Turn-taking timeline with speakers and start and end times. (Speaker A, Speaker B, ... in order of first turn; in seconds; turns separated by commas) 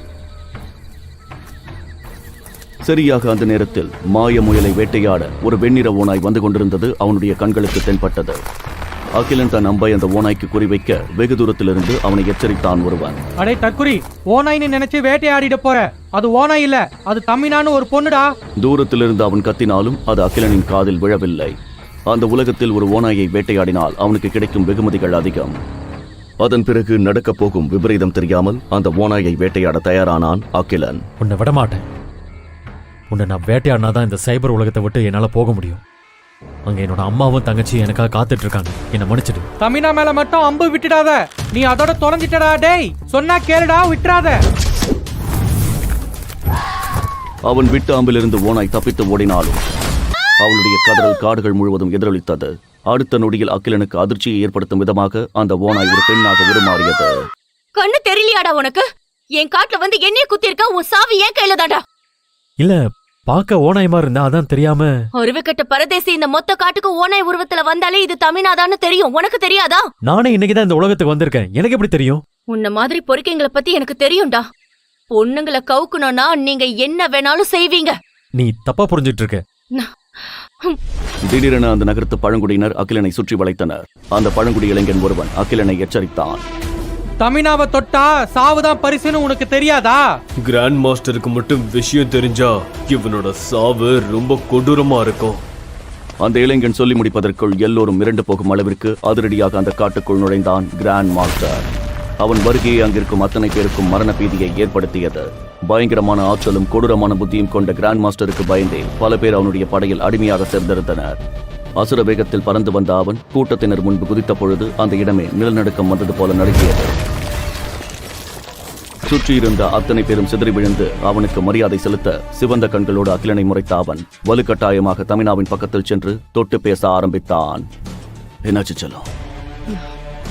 Speaker A: 2.9-8.4, Speaker A: 9.2-13.2, Speaker B: 13.4-18.3, Speaker A: 18.6-21.5, Speaker A: 22.1-25.5, Speaker A: 26.4-31.0, Speaker C: 31.2-31.8, Speaker C: 33.1-35.8, Speaker C: 36.6-39.5, Speaker B: 39.6-44.4, Speaker A: 47.5-49.6, Speaker A: 50.4-57.1, Speaker D: 57.8-58.8, Speaker D: 59.4-61.8, Speaker C: 62.6-64.9, Speaker D: 65.2-69.8, Speaker C: 70.0-72.2, Speaker D: 72.5-74.4, Speaker D: 75.1-77.9, Speaker C: 78.4-79.4, Speaker A: 81.3-86.4, Speaker B: 87.2-90.0, Speaker E: 90.4-95.4, Speaker A: 96.2-101.7, Speaker A: 102.2-111.2, Speaker A: 111.8-116.9, Speaker A: 119.0-127.7, Speaker A: 128.4-129.1